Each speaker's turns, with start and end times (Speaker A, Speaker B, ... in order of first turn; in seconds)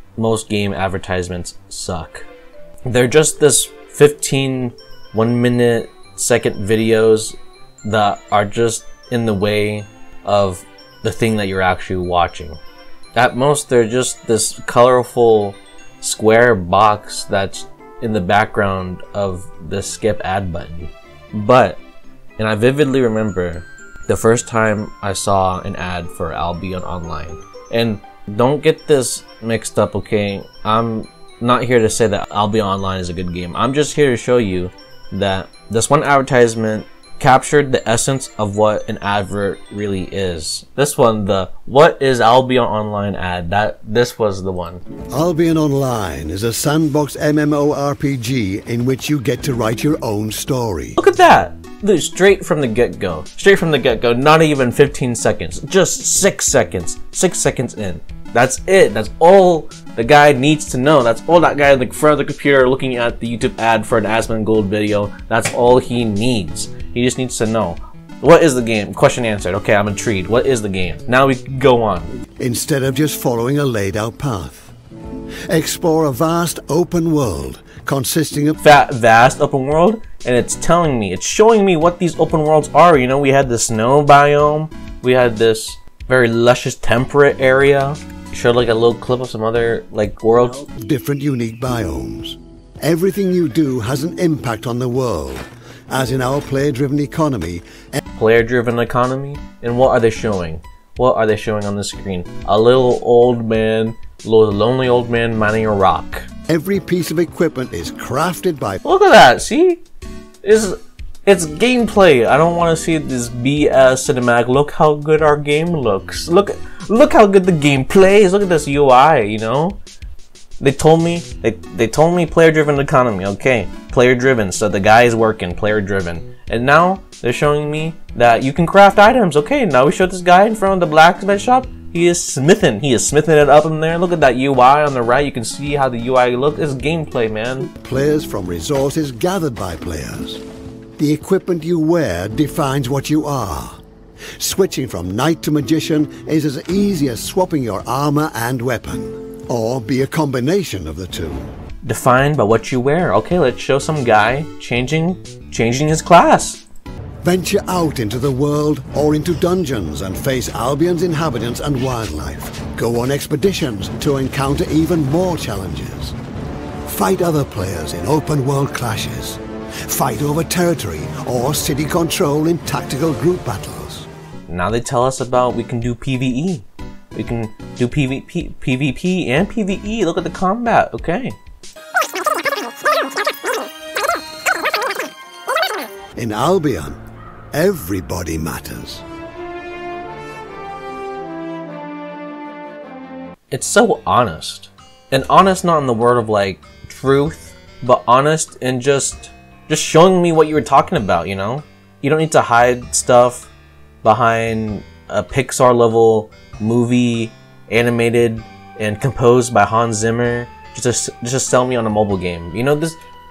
Speaker A: 0.2-2.3, 2.9-12.6, 13.1-21.8, 22.4-44.8, 51.0-72.1, 78.6-90.7, 98.2-106.3, 108.8-109.8, 110.4-119.8, 120.6-137.7, 151.8-156.6, 174.5-181.4, 193.5-203.5, 204.0-213.0
Speaker B: 45.1-51.0, 72.4-74.7, 75.5-78.6, 90.6-98.0, 106.5-108.8, 137.7-140.4, 141.0-143.8, 144.4-151.5, 157.2-166.2, 166.9-174.1, 186.2-187.0, 187.5-189.0